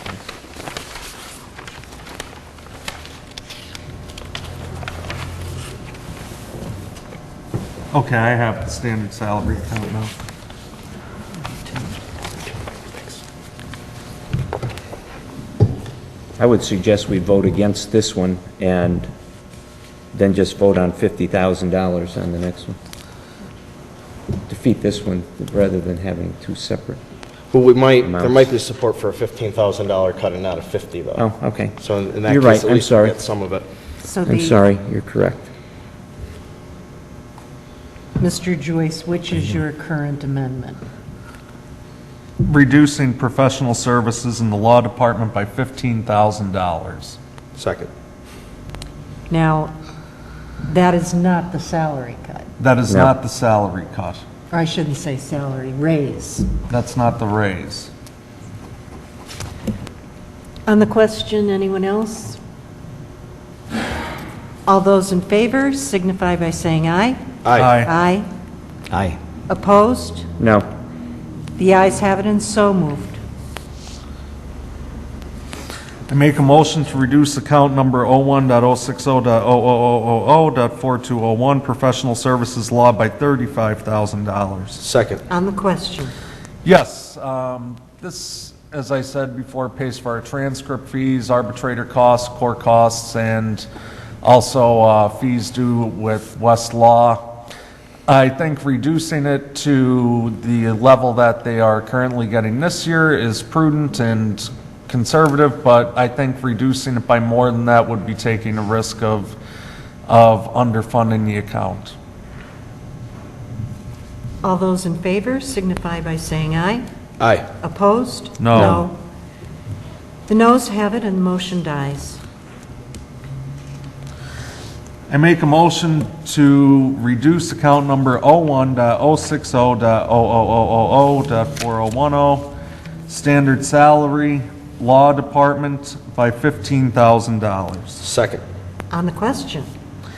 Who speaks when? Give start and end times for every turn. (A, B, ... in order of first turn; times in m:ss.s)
0:07.9-0:10.1 A
0:16.4-0:19.1 B
0:20.1-0:22.8 B
0:24.5-0:27.0 B
0:27.5-0:31.2 C
0:28.0-0:28.5 B
0:31.2-0:33.2 B
0:31.8-0:33.6 C
0:34.0-0:34.6 D
0:34.3-0:35.5 B
0:38.2-0:40.8 D
0:42.4-0:47.2 A
0:47.6-0:47.9 C
0:49.3-0:49.7 D
0:50.6-0:52.5 D
0:52.6-0:54.2 A
0:54.5-0:56.5 D
0:56.7-0:57.9 A
1:00.7-1:02.4 D
1:04.7-1:07.2 D
1:07.4-1:07.8 C
1:07.6-1:07.9 A
1:07.8-1:08.3 D
1:09.5-1:10.3 D
1:10.4-1:10.7 B
1:11.6-1:13.2 D
1:16.1-1:24.8 A
1:24.8-1:25.2 C
1:25.3-1:26.1 D
1:26.6-1:33.7 A
1:34.2-1:37.4 A
1:38.1-1:49.4 A
1:50.1-1:52.0 A
1:54.4-1:56.8 D
1:57.2-1:57.5 C
1:57.6-1:59.0 D
1:58.4-1:58.8 A
2:00.3-2:02.2 D
2:05.1-2:12.5 A
2:13.1-2:18.0 A
2:18.0-2:18.4 C
2:18.9-2:19.7 D